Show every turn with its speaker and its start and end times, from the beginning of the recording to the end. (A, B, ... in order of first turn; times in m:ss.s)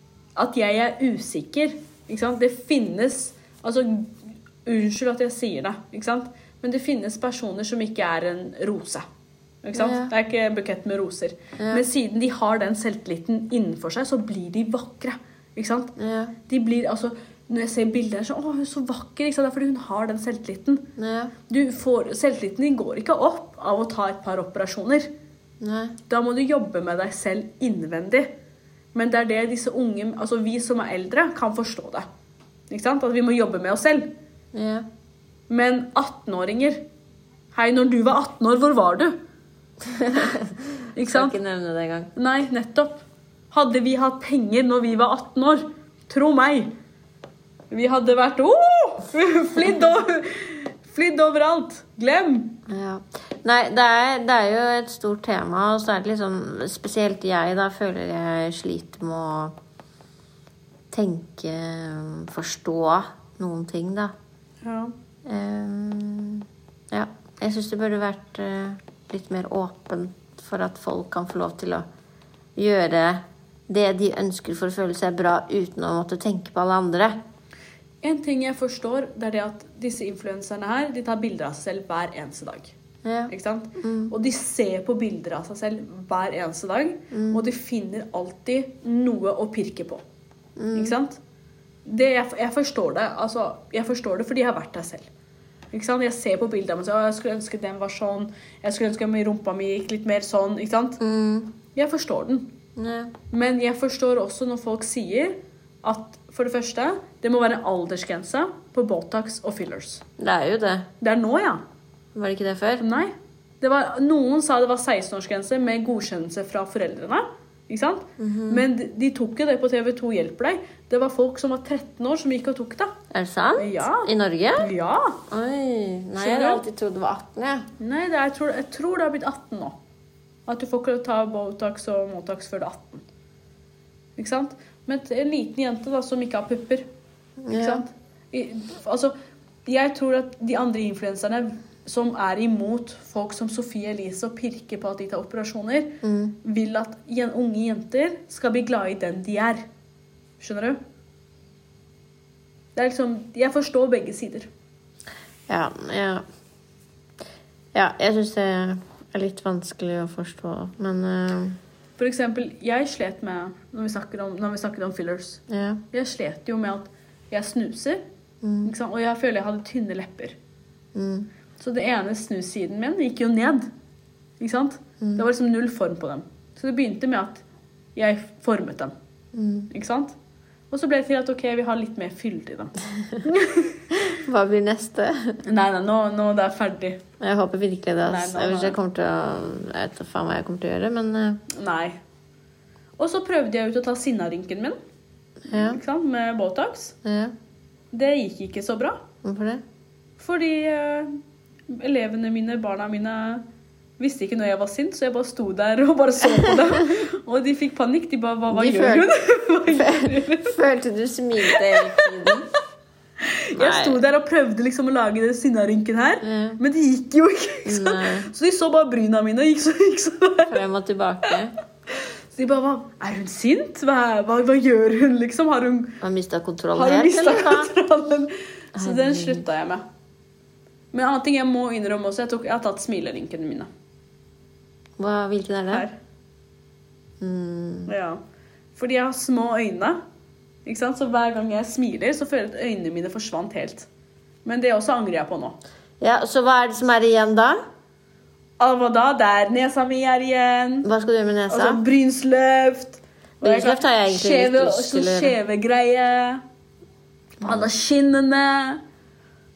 0:00.4-0:09.0 A
0:09.6-0:15.9 A
0:09.7-0:10.1 B
0:11.6-0:11.8 B
0:16.0-0:16.3 B
0:16.5-0:20.8 A
0:21.0-0:21.3 B
0:21.5-0:25.1 A
0:25.6-0:26.0 B
0:26.1-0:28.3 A
0:28.9-0:32.1 A
0:32.7-0:34.1 A
0:34.5-0:34.8 B
0:35.5-0:36.8 A
0:37.5-0:39.1 A
0:39.8-0:42.1 B
0:41.0-0:41.4 A
0:42.2-0:46.7 A
0:47.7-0:52.6 A
0:52.7-0:59.5 B
1:00.9-1:04.1 B
1:04.6-1:04.9 A
1:05.2-1:11.8 B
1:12.6-1:17.2 B
1:18.0-1:22.7 A
1:23.0-1:24.1 B
1:23.3-1:30.0 A
1:27.1-1:27.4 B
1:30.6-1:31.0 B
1:30.7-1:31.2 A
1:31.8-1:35.1 A
1:35.7-1:41.0 A
1:41.0-1:41.5 B
1:41.7-1:42.5 A
1:42.8-1:43.1 B
1:43.3-1:50.0 A
1:50.2-1:50.9 B
1:51.0-1:51.6 A
1:52.1-1:52.8 B
1:52.8-2:03.0 A
1:58.2-1:58.6 B
2:03.1-2:04.7 B
2:03.6-2:05.2 A
2:05.3-2:07.6 B
2:06.2-2:06.6 A
2:07.8-2:09.7 A
2:10.5-2:13.0 A
2:14.2-2:16.8 A
2:17.4-2:17.8 B
2:17.5-2:19.1 A
2:19.6-2:29.6 A
2:26.0-2:26.4 B
2:30.4-2:30.8 A
2:32.8-2:34.5 A
2:35.5-2:36.2 B
2:37.7-2:41.6 B
2:42.0-2:48.0 A
2:45.5-2:45.8 B
2:48.4-2:48.7 B
2:48.6-2:50.3 A
2:50.9-2:51.3 B
2:51.6-2:53.7 A
2:54.4-2:57.4 A
2:58.0-2:58.9 A
2:59.3-2:59.7 B
2:59.7-3:00.2 A
3:00.7-3:03.8 A
3:03.9-3:05.4 B
3:05.4-3:07.0 A
3:07.2-3:11.4 B
3:08.0-3:08.8 A
3:11.5-3:12.0 A
3:13.0-3:14.8 A
3:15.5-3:15.8 B
3:15.5-3:17.0 A
3:17.0-3:17.3 B
3:17.9-3:19.0 A
3:19.2-3:19.6 B
3:20.2-3:21.2 A
3:21.7-3:23.4 A
3:24.0-3:30.6 A
3:26.3-3:26.6 B
3:28.5-3:29.1 B
3:29.7-3:32.5 B
3:31.5-3:32.3 A
3:33.2-3:40.6 A
3:33.5-3:34.0 B
3:36.2-3:36.6 B
3:37.6-3:38.3 B
3:40.5-3:41.5 B
3:41.9-3:46.0 A
3:46.0-3:47.7 B
3:46.7-3:49.8 A
3:48.7-3:49.4 B
3:50.9-3:53.7 A
3:55.0-3:55.8 B
3:55.7-3:55.9 A
3:57.2-3:57.9 B
3:57.9-3:58.2 A
3:58.8-4:00.0 A
4:00.6-4:03.9 A
4:04.4-4:05.6 A
4:06.0-4:07.6 B
4:08.6-4:10.9 A
4:10.8-4:11.8 B
4:11.5-4:16.4 A
4:13.4-4:15.4 B
4:17.4-4:18.8 A
4:17.4-4:17.7 B